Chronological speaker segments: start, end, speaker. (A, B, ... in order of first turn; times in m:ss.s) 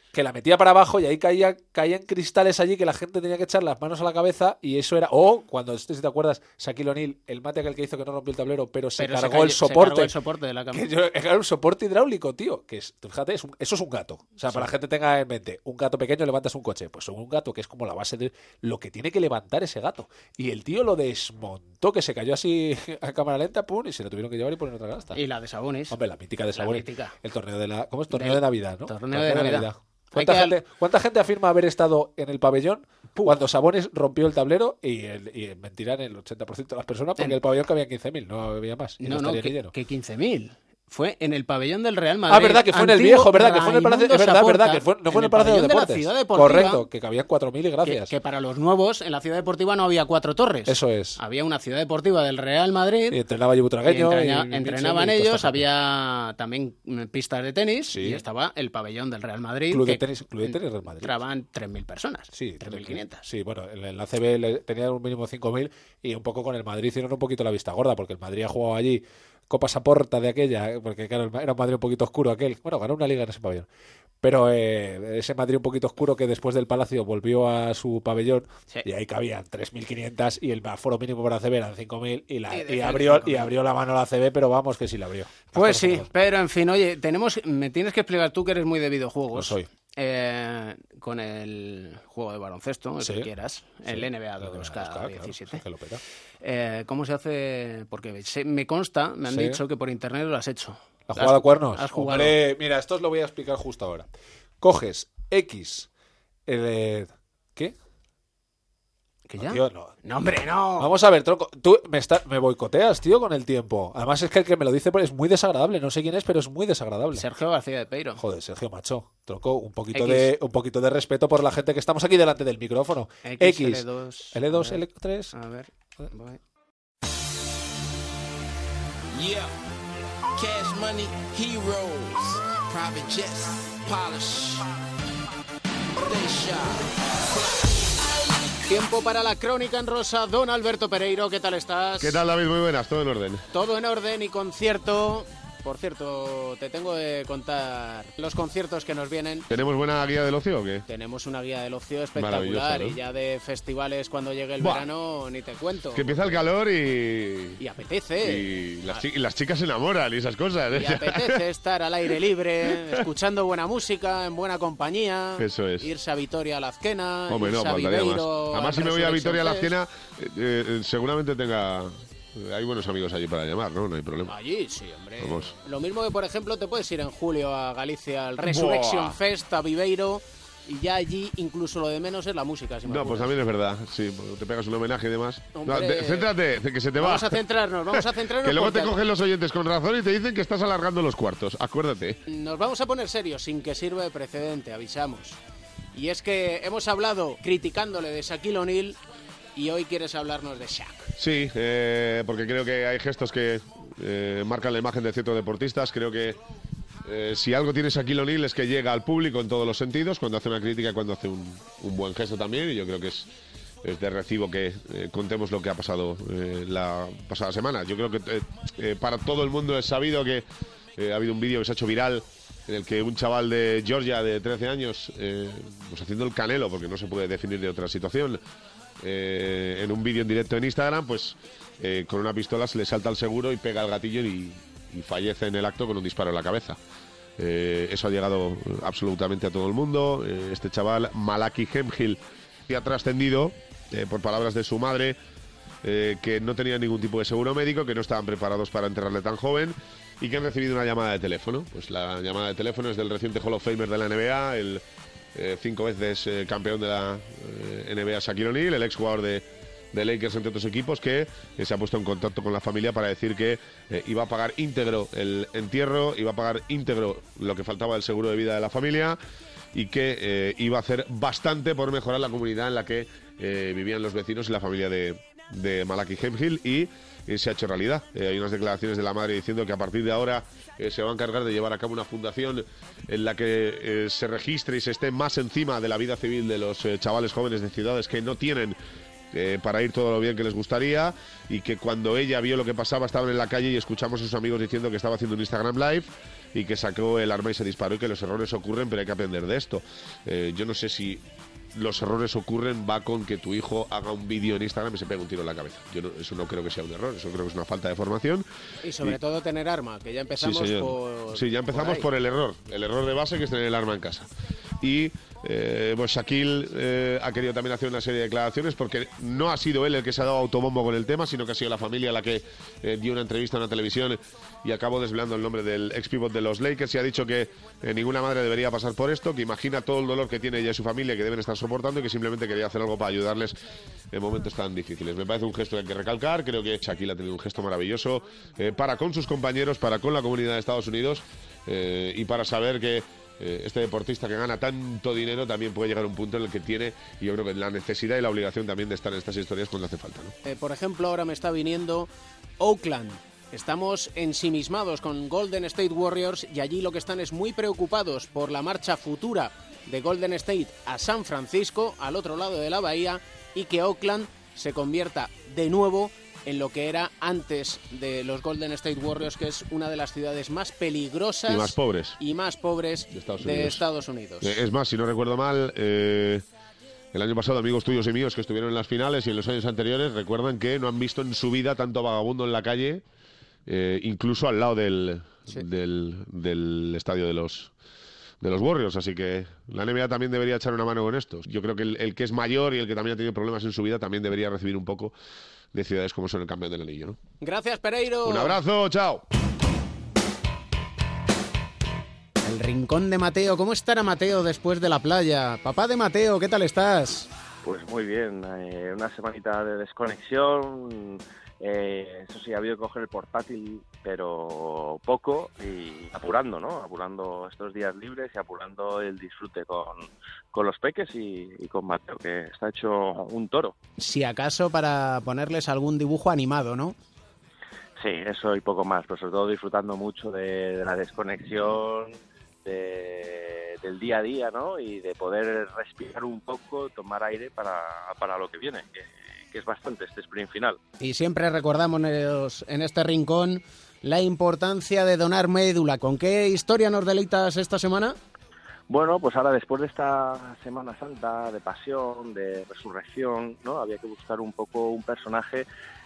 0:00.1-0:10.1 A
0:09.0-0:10.9 B
0:10.7-0:25.2 A
0:14.4-0:14.7 B
0:25.1-0:26.0 B
0:25.9-0:39.7 A
0:26.5-0:27.2 B
0:28.1-0:30.6 B
0:33.2-0:33.4 B
0:39.0-0:46.9 B
0:42.3-0:48.1 A
0:47.8-0:53.2 B
0:50.7-0:51.2 A
0:53.1-0:55.7 A
0:53.8-1:03.2 B
0:57.9-0:58.2 A
0:59.7-1:01.2 A
1:02.3-1:13.7 A
1:14.2-1:26.1 A
1:22.5-1:23.5 B
1:25.5-1:35.6 B
1:29.3-1:29.7 A
1:33.0-1:33.3 A
1:33.8-1:36.0 A
1:36.4-1:42.4 B
1:39.3-1:39.6 A
1:41.1-1:45.9 A
1:46.5-1:47.8 A
1:49.3-1:50.9 B
1:49.4-1:50.0 A
1:50.8-1:57.3 A
1:57.1-1:58.2 B
1:58.2-2:05.4 A
1:59.9-2:00.3 B
2:03.2-2:06.4 B
2:09.1-2:09.5 C
2:10.4-2:14.6 C
2:16.0-2:16.9 C
2:18.7-2:22.2 B
2:22.0-2:23.4 D
2:23.5-2:29.5 B
2:29.5-2:30.8 D
2:30.9-2:36.2 B
2:32.2-2:33.0 D
2:34.6-2:34.9 D
2:35.9-2:37.6 D
2:37.6-2:39.0 B
2:38.2-2:41.3 D
2:40.7-2:49.7 B
2:45.4-2:45.9 D
2:47.3-2:54.4 D
2:54.3-3:03.3 B
2:55.2-2:55.6 D
2:58.4-2:59.2 D
3:02.8-3:07.4 D
3:05.5-3:06.3 B
3:07.0-3:09.0 B
3:08.4-3:12.2 D
3:12.3-3:15.4 B
3:15.9-3:19.0 B
3:19.6-3:21.1 B
3:21.2-3:26.4 D
3:27.0-3:33.3 D
3:33.8-3:40.4 D
3:41.0-3:48.4 D
3:49.0-3:56.8 D
3:57.4-4:05.2 D
4:05.8-4:14.8 D
4:15.4-4:29.2 D
4:29.7-4:48.8 D
4:49.3-5:08.4 D
5:08.8-5:12.1 B
5:10.4-5:14.3 D
5:14.8-5:33.6 D
5:34.1-5:50.3 D
5:50.4-6:14.6 B
6:11.5-6:12.2 D
6:13.1-6:13.8 D
6:14.4-6:16.4 D
6:17.1-6:23.0 D
6:23.7-6:27.7 D
6:28.4-6:35.1 D
6:35.7-6:37.2 D
6:37.4-6:38.6 B
6:38.2-6:39.2 D
6:42.4-6:47.3 B
6:47.6-7:03.8 E
7:04.0-7:07.0 B
7:08.0-7:20.8 E
7:21.0-7:28.2 B
7:28.9-7:35.7 E